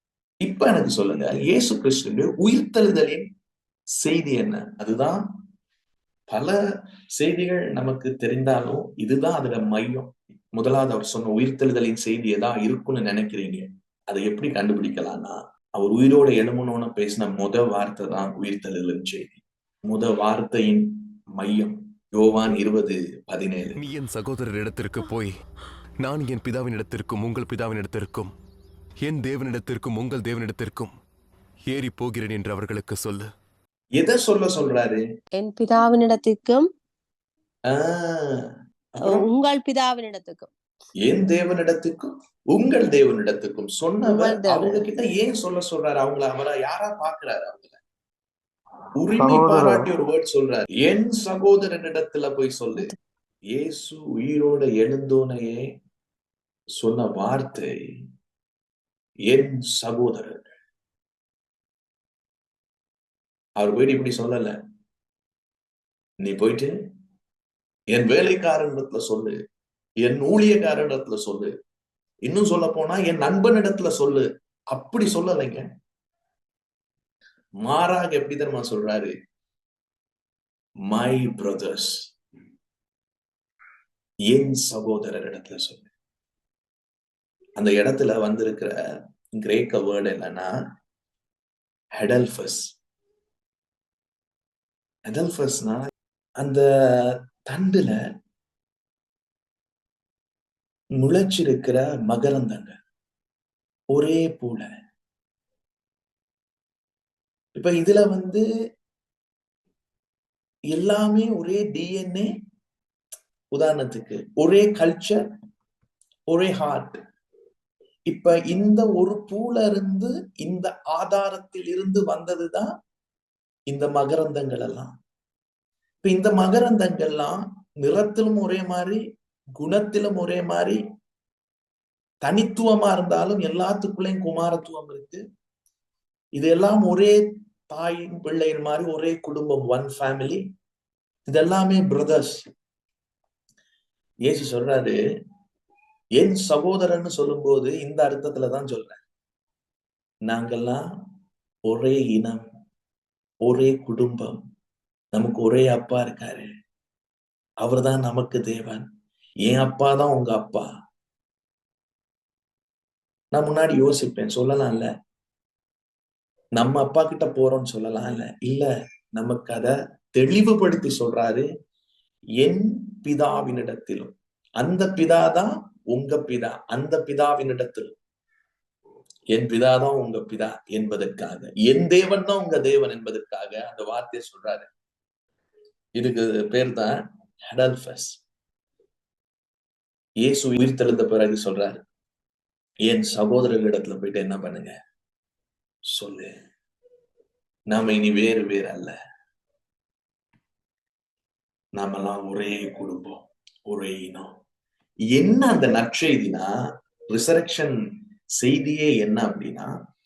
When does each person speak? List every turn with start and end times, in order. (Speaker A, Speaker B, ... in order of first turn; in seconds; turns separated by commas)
Speaker A: 0.4-3.2, Speaker A: 4.0-5.2, Speaker A: 6.3-6.6, Speaker A: 7.2-23.8, Speaker B: 23.8-25.3, Speaker B: 26.0-28.3, Speaker B: 29.0-30.9, Speaker B: 31.7-33.3, Speaker A: 34.0-35.0, Speaker C: 35.4-36.7, Speaker A: 37.7-38.4, Speaker A: 39.0-39.3, Speaker C: 39.0-40.5, Speaker A: 41.1-47.8, Speaker C: 44.0-44.8, Speaker A: 49.0-52.9, Speaker C: 49.3-49.8, Speaker A: 53.5-55.6, Speaker A: 56.8-57.7, Speaker A: 59.3-60.4, Speaker A: 63.6-64.5, Speaker A: 66.2-66.7, Speaker A: 67.9-69.3, Speaker A: 70.0-71.5, Speaker A: 72.3-75.7, Speaker A: 77.6-79.1, Speaker A: 80.9-82.0, Speaker A: 84.3-85.9, Speaker A: 87.6-88.7, Speaker A: 89.4-90.5, Speaker A: 92.0-92.6, Speaker A: 95.1-96.7, Speaker A: 97.5-97.9, Speaker A: 101.0-102.8, Speaker A: 103.9-104.7, Speaker A: 107.5-108.4, Speaker A: 110.7-112.3, Speaker A: 113.5-115.2, Speaker A: 116.3-117.0, Speaker A: 118.1-122.7, Speaker A: 123.7-124.9, Speaker A: 126.0-129.0, Speaker A: 129.6-130.8, Speaker A: 132.2-135.2, Speaker A: 136.4-140.4, Speaker A: 141.3-142.4, Speaker A: 144.3-145.0, Speaker A: 146.2-149.0, Speaker A: 150.3-150.8, Speaker A: 151.7-152.4, Speaker A: 153.4-154.4, Speaker A: 155.1-156.5, Speaker A: 157.6-158.8, Speaker A: 159.4-160.7, Speaker A: 163.3-164.9, Speaker A: 166.6-171.5, Speaker A: 172.4-177.9, Speaker A: 179.3-184.7, Speaker A: 186.0-188.2, Speaker A: 190.2-191.8, Speaker A: 192.9-194.8, Speaker A: 195.9-196.3, Speaker A: 197.7-199.0, Speaker A: 201.8-204.3, Speaker A: 205.2-206.5, Speaker A: 207.1-207.8, Speaker A: 208.4-209.7